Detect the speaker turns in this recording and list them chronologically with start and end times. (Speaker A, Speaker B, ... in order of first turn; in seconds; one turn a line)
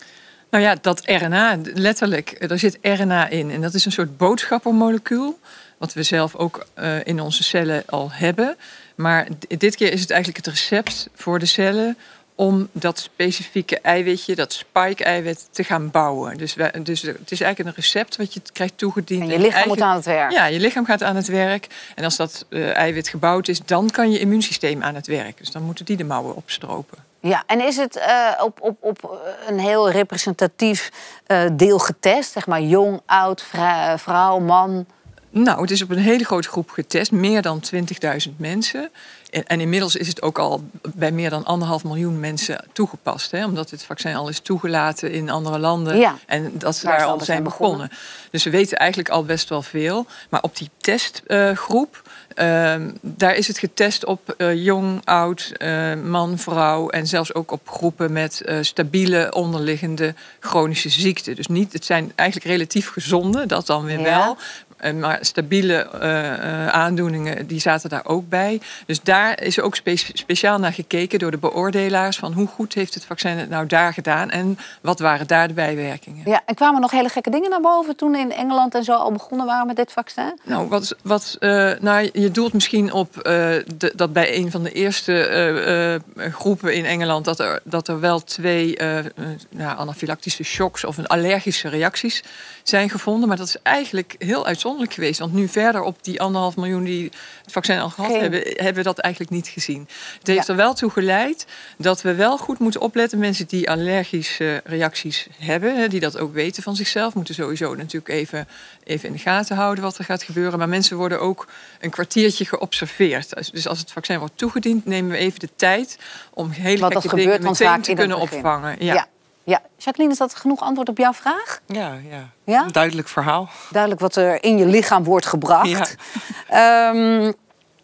Speaker A: 0.5-27.0
Speaker B: 19.2-20.3
Speaker B: 27.2-34.9
Speaker A: 35.3-76.3
Speaker B: 45.9-46.2
Speaker B: 46.8-47.8
Speaker B: 63.9-64.3
Speaker B: 76.2-80.4
Speaker A: 80.5-119.0
Speaker B: 98.0-98.4
Speaker B: 116.8-121.6
Speaker C: 121.7-123.5
Speaker B: 122.5-122.7
Speaker B: 123.7-125.9
Speaker C: 125.6-125.9
Speaker B: 126.5-127.3